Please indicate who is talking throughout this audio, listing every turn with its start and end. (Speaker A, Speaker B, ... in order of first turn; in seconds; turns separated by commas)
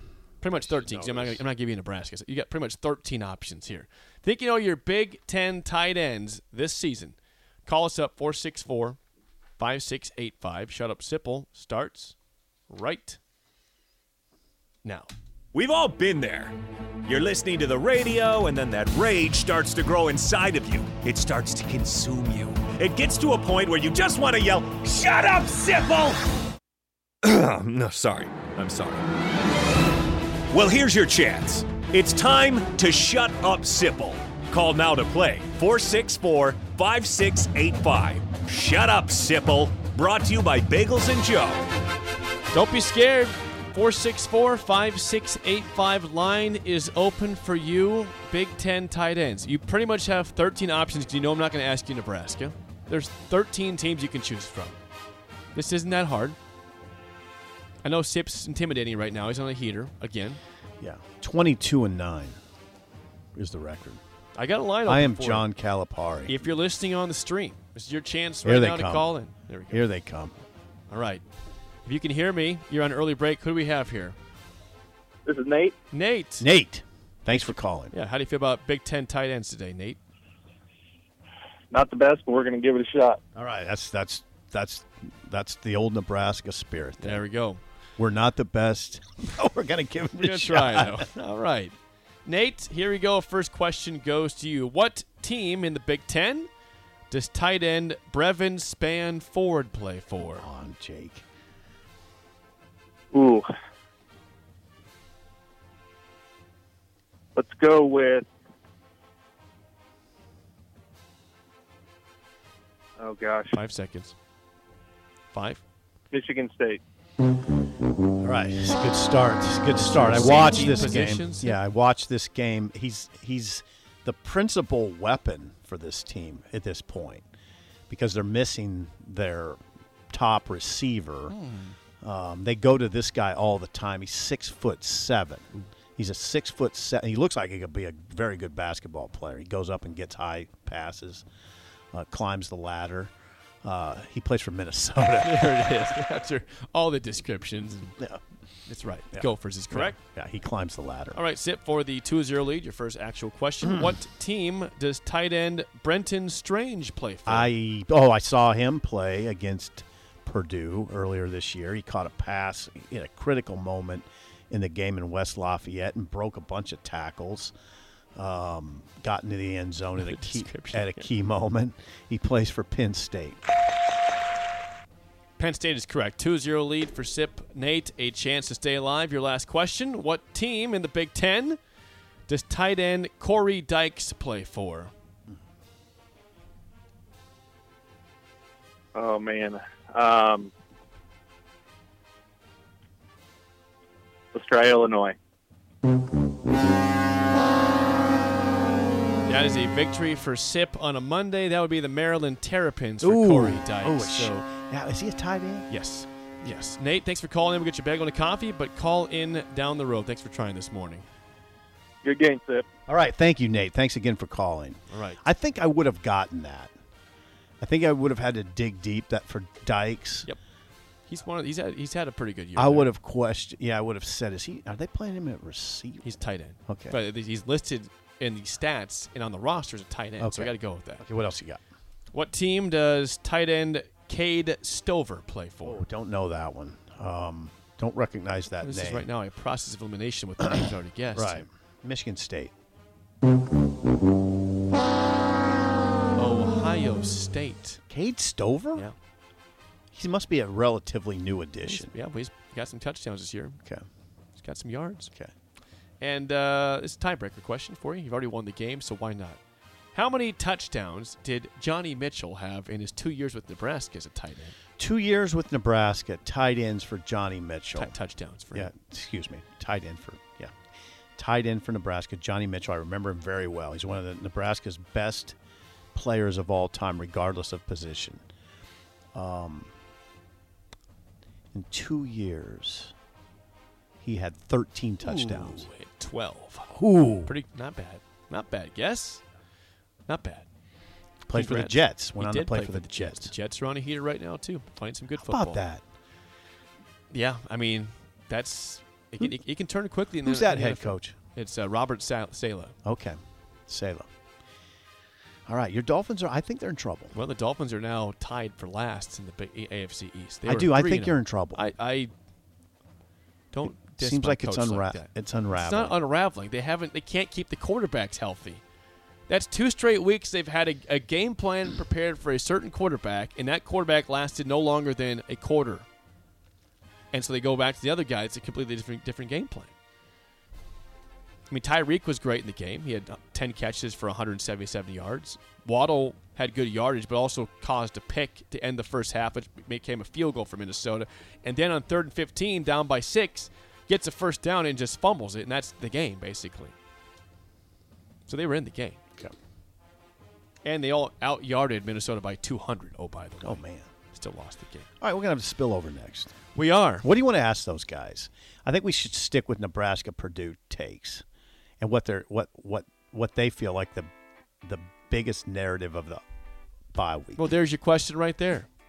Speaker A: 0.4-9.0, Speaker B: 0.8-1.4, Speaker A: 9.6-12.2, Speaker A: 12.7-13.2, Speaker A: 14.8-15.1, Speaker C: 15.5-16.5, Speaker C: 17.1-26.2, Speaker C: 27.3-29.0, Speaker C: 30.5-41.6, Speaker A: 42.5-54.8, Speaker A: 55.5-56.4, Speaker A: 57.8-60.4, Speaker B: 60.8-62.4, Speaker B: 63.4-64.0, Speaker A: 64.3-65.5, Speaker B: 64.9-66.4, Speaker A: 66.3-69.9, Speaker B: 68.4-69.1, Speaker B: 69.7-70.3, Speaker A: 70.9-71.2, Speaker A: 71.8-74.2, Speaker D: 75.3-75.7, Speaker A: 75.9-76.5, Speaker B: 76.4-77.9, Speaker A: 77.3-80.0, Speaker D: 81.7-83.2, Speaker B: 83.3-87.2, Speaker A: 87.0-87.6, Speaker B: 88.0-91.1, Speaker A: 90.2-96.5, Speaker A: 97.1-100.5, Speaker B: 100.3-101.2, Speaker D: 103.1-103.5, Speaker D: 107.3-108.3, Speaker D: 113.0-113.5, Speaker A: 113.5-114.1, Speaker A: 115.3-115.6, Speaker D: 116.1-116.8, Speaker B: 118.2-127.3, Speaker A: 119.8-121.6, Speaker B: 127.9-131.4, Speaker A: 131.3-131.8, Speaker B: 132.0-141.2, Speaker B: 141.9-145.7, Speaker A: 145.2-148.0, Speaker A: 148.7-150.0, Speaker B: 149.1-151.2, Speaker A: 151.1-157.5, Speaker B: 153.6-154.0, Speaker B: 157.3-167.5, Speaker B: 168.2-173.4, Speaker A: 170.0-171.1, Speaker A: 175.4-181.6, Speaker A: 182.3-184.9, Speaker D: 188.9-190.5, Speaker D: 194.3-195.2, Speaker A: 199.3-204.4, Speaker B: 203.0-205.7, Speaker A: 205.7-211.1, Speaker D: 212.0-212.7, Speaker B: 212.9-216.7, Speaker A: 214.9-215.2, Speaker B: 217.6-220.3, Speaker A: 221.1-222.9, Speaker B: 222.6-226.1, Speaker A: 226.0-231.0, Speaker B: 226.7-227.0, Speaker B: 230.2-231.6, Speaker A: 232.1-235.8, Speaker B: 235.6-239.1, Speaker A: 238.6-241.5, Speaker B: 240.4-242.5, Speaker A: 246.2-247.8, Speaker B: 247.9-248.9, Speaker B: 249.9-251.9, Speaker A: 251.6-253.6, Speaker A: 254.4-255.1, Speaker A: 256.0-259.4, Speaker A: 259.9-264.6, Speaker B: 264.8-267.9, Speaker A: 267.8-268.7, Speaker B: 268.5-270.5, Speaker B: 271.2-275.4, Speaker B: 275.9-278.2, Speaker B: 279.1-279.7, Speaker B: 281.5-282.9, Speaker B: 284.0-285.7, Speaker A: 285.0-289.2, Speaker B: 286.7-287.3, Speaker A: 290.1-290.5, Speaker B: 291.3-293.3, Speaker A: 291.3-295.6, Speaker B: 295.1-295.8, Speaker A: 297.1-302.8, Speaker B: 300.2-301.1, Speaker B: 302.9-304.1, Speaker B: 305.5-307.1, Speaker A: 307.1-312.1, Speaker B: 310.4-311.6, Speaker A: 313.5-318.6, Speaker B: 313.6-316.0, Speaker A: 319.3-325.9, Speaker A: 327.1-329.7, Speaker A: 331.5-346.7, Speaker A: 348.3-349.0, Speaker A: 350.6-354.9, Speaker B: 353.4-353.9, Speaker B: 355.0-356.4, Speaker A: 356.6-357.1, Speaker B: 357.0-361.2, Speaker B: 361.8-364.1, Speaker B: 364.6-366.2, Speaker B: 366.9-367.4, Speaker A: 367.4-368.7